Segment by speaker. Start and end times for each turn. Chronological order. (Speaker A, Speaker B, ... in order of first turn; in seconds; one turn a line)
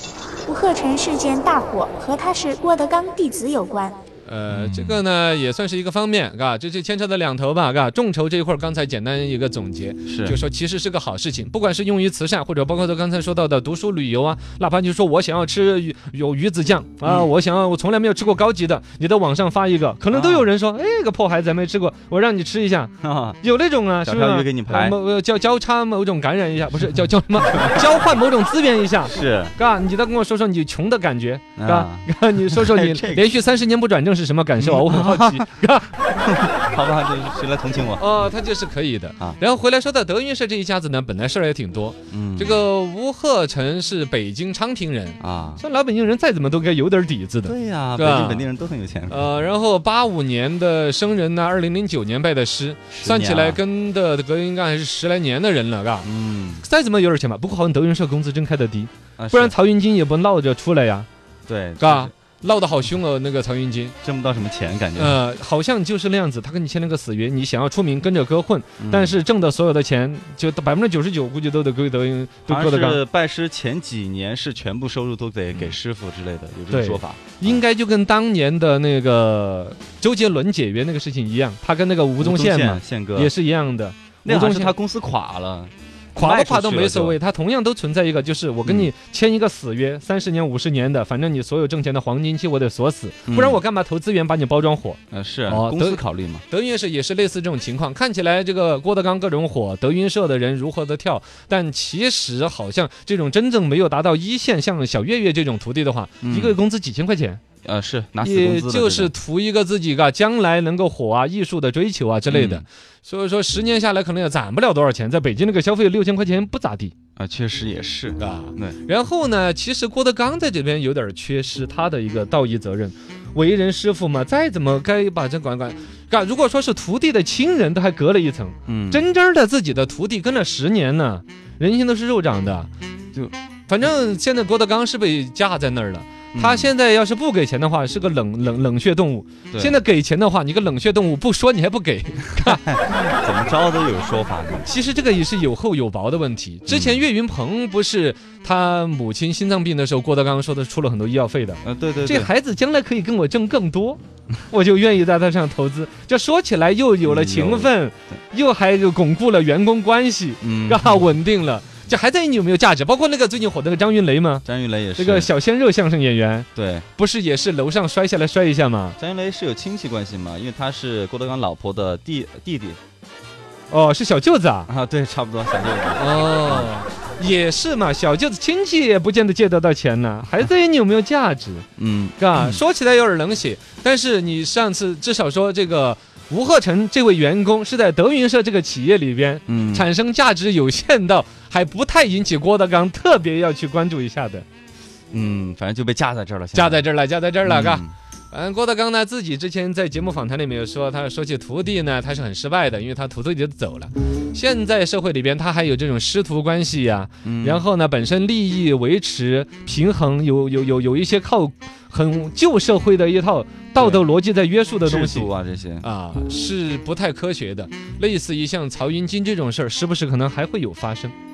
Speaker A: 0.5-4.0
Speaker B: 4.3-36.0
Speaker C: 4.5-5.0
Speaker C: 10.1-10.4
Speaker C: 17.0-17.3
Speaker C: 20.1-20.5
Speaker C: 23.0-23.4
Speaker C: 24.0-25.0
Speaker C: 27.5-27.9
Speaker C: 29.1-29.6
Speaker C: 31.6-33.4
Speaker C: 34.6-35.5
Speaker C: 36.1-38.0
Speaker B: 38.0-48.5
Speaker C: 42.1-42.6
Speaker C: 45.2-45.6
Speaker C: 47.5-49.3
Speaker B: 49.1-56.1
Speaker C: 52.9-53.6
Speaker C: 56.0-56.6
Speaker B: 56.6-61.1
Speaker C: 59.2-59.6
Speaker C: 61.5-62.1
Speaker B: 61.8-64.0
Speaker C: 64.0-65.2
Speaker B: 65.0-73.0
Speaker C: 68.8-69.2
Speaker C: 72.5-77.6
Speaker B: 76.7-84.8
Speaker C: 82.2-83.3
Speaker C: 84.2-87.2
Speaker B: 86.2-107.4
Speaker C: 88.7-88.9
Speaker C: 93.3-93.6
Speaker C: 95.1-96.4
Speaker C: 106.2-106.6
Speaker C: 107.6-109.2
Speaker B: 108.2-116.9
Speaker C: 112.3-112.7
Speaker C: 117.2-118.8
Speaker B: 118.2-132.7
Speaker C: 128.7-129.1
Speaker B: 133.7-142.6
Speaker C: 136.3-136.7
Speaker C: 139.5-139.8
Speaker C: 142.4-144.7
Speaker B: 144.7-164.4
Speaker C: 146.7-147.0
Speaker C: 151.6-152.3
Speaker C: 157.0-157.7
Speaker C: 160.4-161.0
Speaker C: 164.4-165.3
Speaker B: 165.0-169.0
Speaker C: 166.6-166.9
Speaker C: 169.0-172.8
Speaker B: 173.7-174.7
Speaker C: 174.7-176.7
Speaker B: 175.9-181.7
Speaker C: 181.8-182.6
Speaker B: 182.2-194.4
Speaker C: 189.5-189.9
Speaker C: 195.1-196.9
Speaker B: 196.5-215.3
Speaker C: 197.4-197.9
Speaker C: 207.2-207.6
Speaker C: 213.8-214.1
Speaker C: 214.8-215.9
Speaker B: 215.8-221.2